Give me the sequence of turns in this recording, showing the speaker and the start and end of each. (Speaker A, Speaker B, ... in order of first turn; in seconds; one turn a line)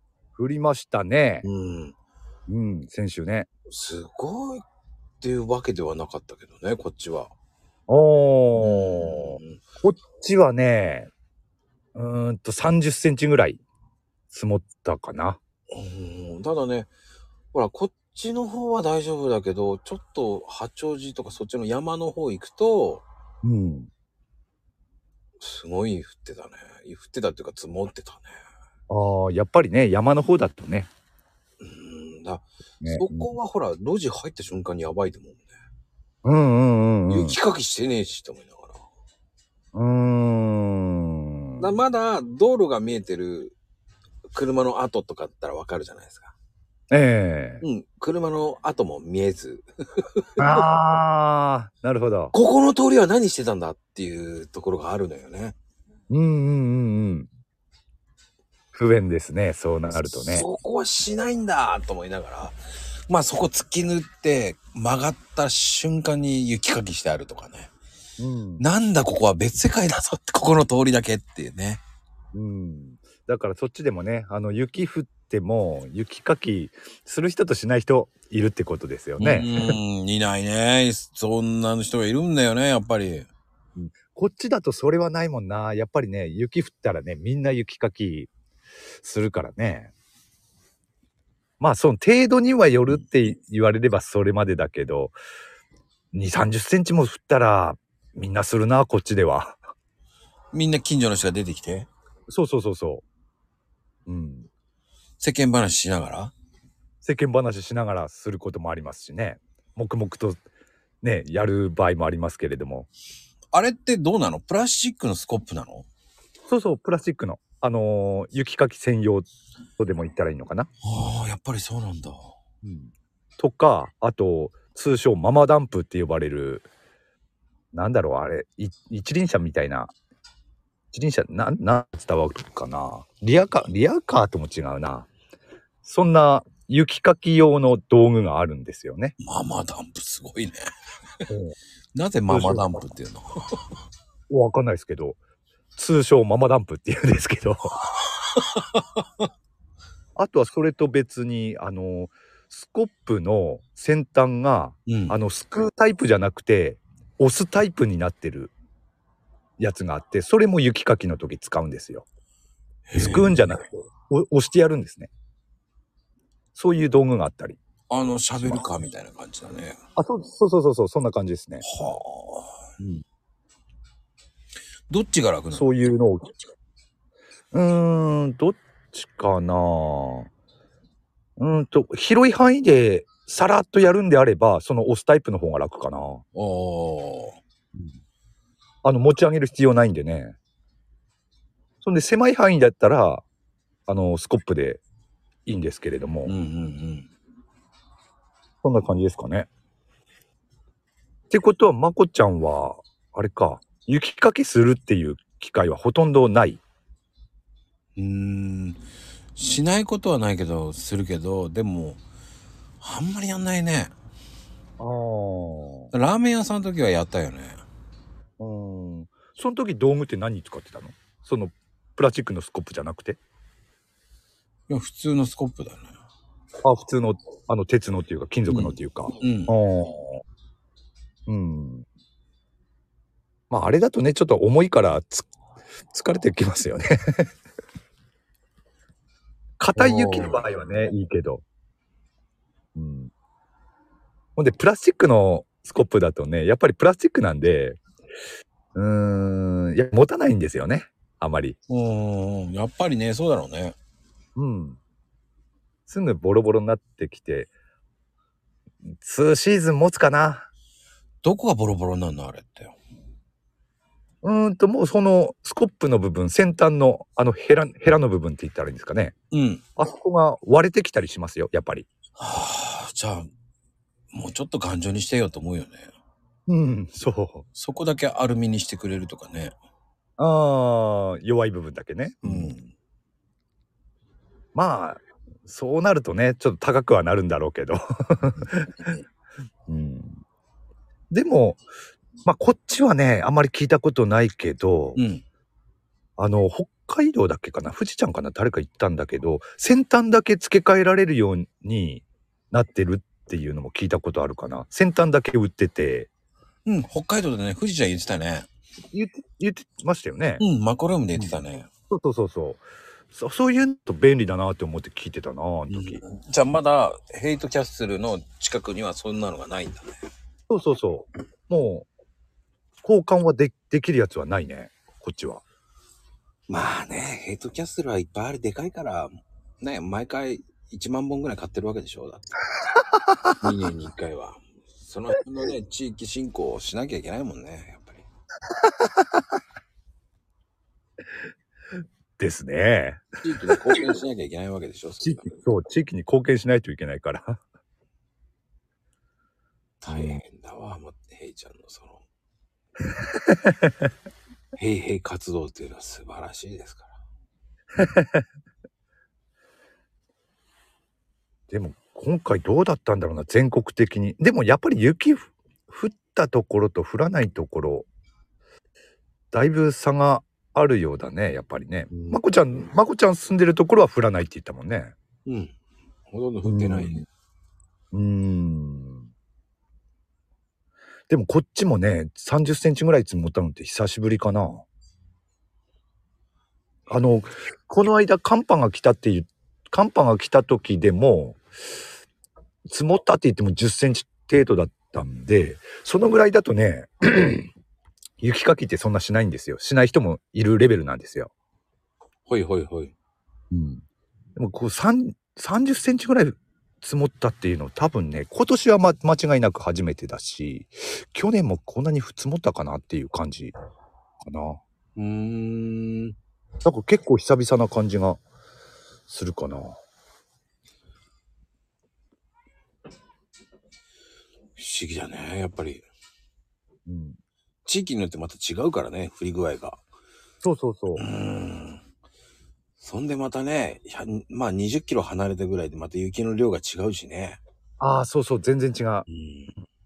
Speaker A: 0.4-1.5
Speaker B: 1.4-1.9
Speaker A: 2.5-3.5
Speaker B: 3.7-4.6
Speaker B: 5.2-7.3
Speaker A: 7.9-11.1
Speaker B: 8.6-9.6
Speaker A: 11.9-13.6
Speaker A: 14.3-15.4
Speaker B: 15.7-16.9
Speaker B: 17.5-23.0
Speaker A: 23.4-23.9
Speaker B: 25.4-28.4
Speaker A: 28.9-30.9
Speaker B: 31.6-35.5
Speaker A: 32.8-33.3
Speaker A: 36.2-37.4
Speaker B: 37.1-38.8
Speaker A: 39.7-41.7
Speaker B: 41.6-43.5
Speaker B: 44.3-46.3
Speaker A: 46.9-47.6
Speaker B: 47.6-50.6
Speaker A: 50.4-52.3
Speaker B: 52.3-55.5
Speaker A: 56.1-57.3
Speaker A: 58.7-60.5
Speaker B: 59.9-67.7
Speaker A: 68.2-68.6
Speaker B: 68.6-71.8
Speaker A: 72.3-79.7
Speaker B: 79.2-83.3
Speaker A: 83.8-88.3
Speaker A: 89.0-89.9
Speaker A: 91.6-95.2
Speaker A: 96.1-99.6
Speaker B: 100.5-101.9
Speaker A: 102.3-103.0
Speaker A: 104.1-104.5
Speaker B: 105.2-106.3
Speaker A: 107.0-110.4
Speaker A: 111.0-112.9
Speaker B: 113.5-115.9
Speaker A: 116.5-120.7
Speaker B: 120.8-122.3
Speaker A: 122.6-126.7
Speaker A: 127.7-129.9
Speaker A: 130.9-135.1
Speaker A: 135.8-139.1
Speaker B: 139.2-140.7
Speaker A: 141.3-141.6
Speaker B: 141.9-143.6
Speaker A: 142.3-142.7
Speaker A: 144.3-145.2
Speaker A: 145.7-147.8
Speaker B: 148.3-149.0
Speaker A: 150.2-158.5
Speaker B: 154.9-155.2
Speaker A: 159.6-162.0
Speaker B: 162.9-163.5
Speaker A: 163.0-165.1
Speaker A: 166.5-167.6
Speaker B: 167.9-169.8
Speaker A: 168.4-168.6
Speaker A: 169.9-171.6
Speaker B: 171.6-172.7
Speaker B: 174.9-175.7
Speaker A: 175.5-176.3
Speaker A: 177.5-180.3
Speaker A: 181.4-186.2
Speaker B: 186.3-187.4
Speaker A: 188.8-190.4
Speaker A: 191.8-193.2
Speaker A: 193.9-194.8
Speaker A: 195.4-196.3
Speaker B: 196.2-197.1
Speaker A: 198.6-199.5
Speaker A: 201.3-206.6
Speaker B: 207.9-208.8
Speaker B: 209.3-212.0
Speaker B: 212.8-213.9
Speaker A: 214.8-215.9
Speaker B: 215.9-217.6
Speaker A: 218.4-223.2
Speaker B: 224.7-225.9
Speaker A: 226.6-230.2
Speaker B: 228.5-229.5
Speaker A: 231.3-231.8
Speaker A: 233.5-235.3
Speaker A: 235.9-237.3
Speaker A: 239.6-241.4
Speaker B: 239.8-240.4
Speaker A: 242.7-243.1
Speaker A: 244.3-247.8
Speaker A: 248.7-251.6
Speaker B: 251.7-253.8
Speaker A: 254.3-254.8
Speaker A: 255.9-257.5
Speaker A: 258.8-260.5
Speaker B: 261.2-262.8
Speaker A: 264.2-269.1
Speaker B: 269.3-269.6
Speaker A: 269.8-271.9
Speaker B: 272.2-273.3
Speaker B: 274.1-275.9
Speaker A: 276.5-277.4
Speaker B: 277.5-279.5
Speaker A: 280.2-282.5
Speaker B: 282.2-282.7
Speaker A: 284.5-288.9
Speaker A: 289.7-290.2
Speaker A: 291.1-291.6
Speaker A: 292.2-295.0
Speaker B: 294.9-295.2
Speaker A: 296.2-306.1
Speaker B: 306.6-308.5
Speaker A: 308.9-310.4
Speaker B: 310.4-311.7
Speaker A: 311.2-316.0
Speaker B: 315.7-320.1
Speaker A: 320.5-321.9
Speaker A: 322.8-325.4
Speaker B: 326.5-332.4
Speaker B: 333.4-338.0
Speaker A: 342.2-343.6
Speaker B: 343.2-345.4
Speaker A: 345.0-347.4
Speaker B: 349.8-352.0
Speaker A: 349.9-350.2
Speaker A: 353.3-353.7
Speaker B: 354.6-356.9
Speaker A: 357.8-358.2
Speaker A: 361.5-367.9
Speaker A: 369.3-374.9
Speaker B: 371.9-372.2
Speaker B: 375.2-375.5
Speaker B: 376.1-377.0
Speaker A: 376.4-377.0
Speaker A: 377.9-379.1
Speaker A: 381.1-384.6
Speaker A: 386.9-391.4
Speaker A: 392.6-397.5
Speaker A: 398.2-401.3
Speaker B: 402.3-402.9
Speaker A: 403.5-403.8
Speaker A: 404.4-413.5
Speaker A: 414.2-414.6
Speaker B: 414.9-416.1
Speaker A: 416.6-418.2
Speaker A: 419.1-419.8
Speaker B: 424.6-425.8
Speaker A: 426.9-427.2
Speaker B: 427.6-429.8
Speaker A: 430.4-431.0
Speaker B: 430.9-431.8
Speaker B: 432.8-437.4
Speaker A: 437.8-439.1
Speaker B: 439.1-439.6